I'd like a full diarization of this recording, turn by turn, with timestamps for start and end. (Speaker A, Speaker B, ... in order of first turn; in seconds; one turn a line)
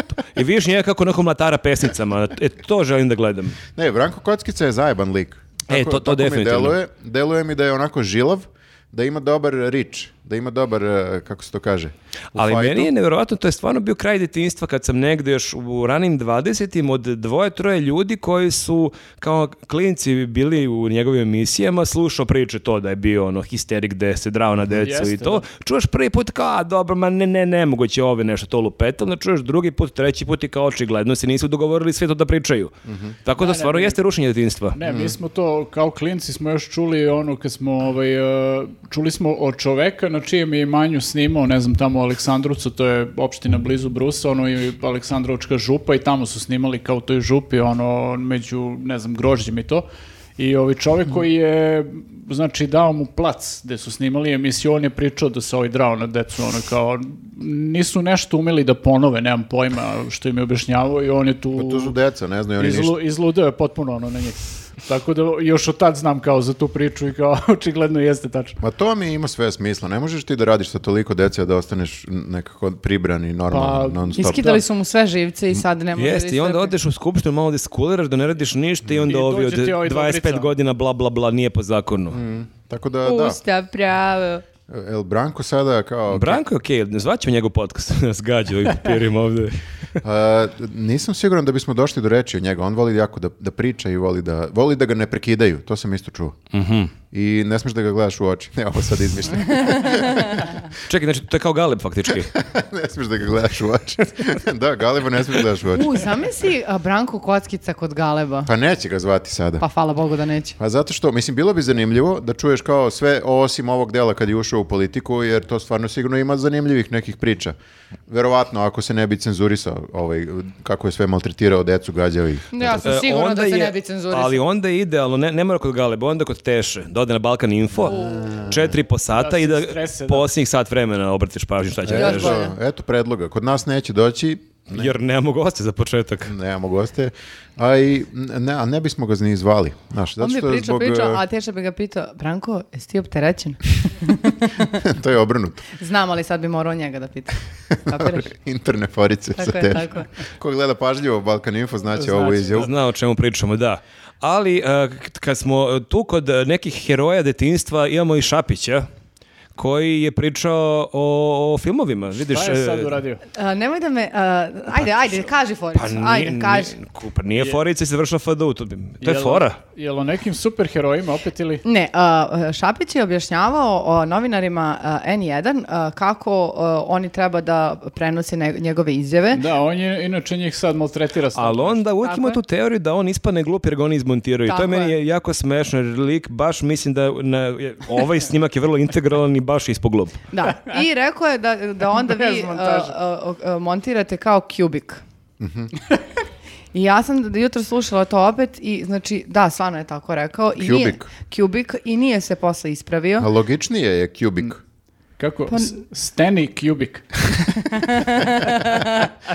Speaker A: 0.3-3.6
Speaker B: 3.7-12.9
Speaker A: 5.7-6.8
Speaker A: 12.3-32.7
Speaker C: 24.7-25.4
Speaker B: 32.9-33.2
Speaker A: 33.2-34.8
Speaker C: 33.4-34.0
Speaker C: 34.7-49.9
Speaker B: 34.8-35.2
Speaker C: 50.4-61.9
Speaker B: 61.5-63.0
Speaker C: 62.6-68.6
Speaker B: 68.6-74.6
Speaker C: 73.5-74.6
Speaker D: 74.2-76.7
Speaker A: 76.0-82.2
Speaker C: 79.1-80.5
Speaker B: 82.1-83.4
Speaker D: 83.0-84.4
Speaker B: 84.7-86.4
Speaker A: 86.1-89.6
Speaker B: 90.0-96.4
Speaker A: 96.5-96.9
Speaker B: 97.1-100.6
Speaker D: 99.4-100.5
Speaker A: 100.8-102.3
Speaker B: 102.1-106.0
Speaker D: 105.7-108.5
Speaker B: 108.5-109.6
Speaker D: 109.6-110.6
Speaker B: 110.6-117.6
Speaker B: 118.1-122.9
Speaker D: 122.5-124.4
Speaker A: 122.8-132.4
Speaker D: 127.8-128.2
Speaker B: 127.8-128.8
Speaker C: 129.1-130.3
Speaker B: 131.8-134.9
Speaker D: 131.9-132.6
Speaker A: 134.7-136.3
Speaker B: 136.3-141.2
Speaker D: 140.2-144.8
Speaker B: 144.8-145.7
Speaker D: 145.8-148.3
Speaker B: 147.9-152.7
Speaker D: 149.4-150.1
Speaker C: 151.9-152.7
Speaker A: 152.5-158.9
Speaker A: 159.6-163.0
Speaker C: 162.2-163.2
Speaker D: 163.3-166.7
Speaker A: 165.7-169.6
Speaker C: 169.0-171.6
Speaker D: 171.6-179.4
Speaker C: 179.3-181.8
Speaker A: 181.3-190.2
Speaker D: 182.0-182.4
Speaker D: 184.4-184.9
Speaker D: 190.3-195.0
Speaker C: 191.9-192.9
Speaker B: 195.4-195.7
Speaker D: 196.7-203.3
Speaker B: 200.6-201.1
Speaker B: 203.2-204.6
Speaker C: 205.2-207.2
Speaker D: 207.5-209.1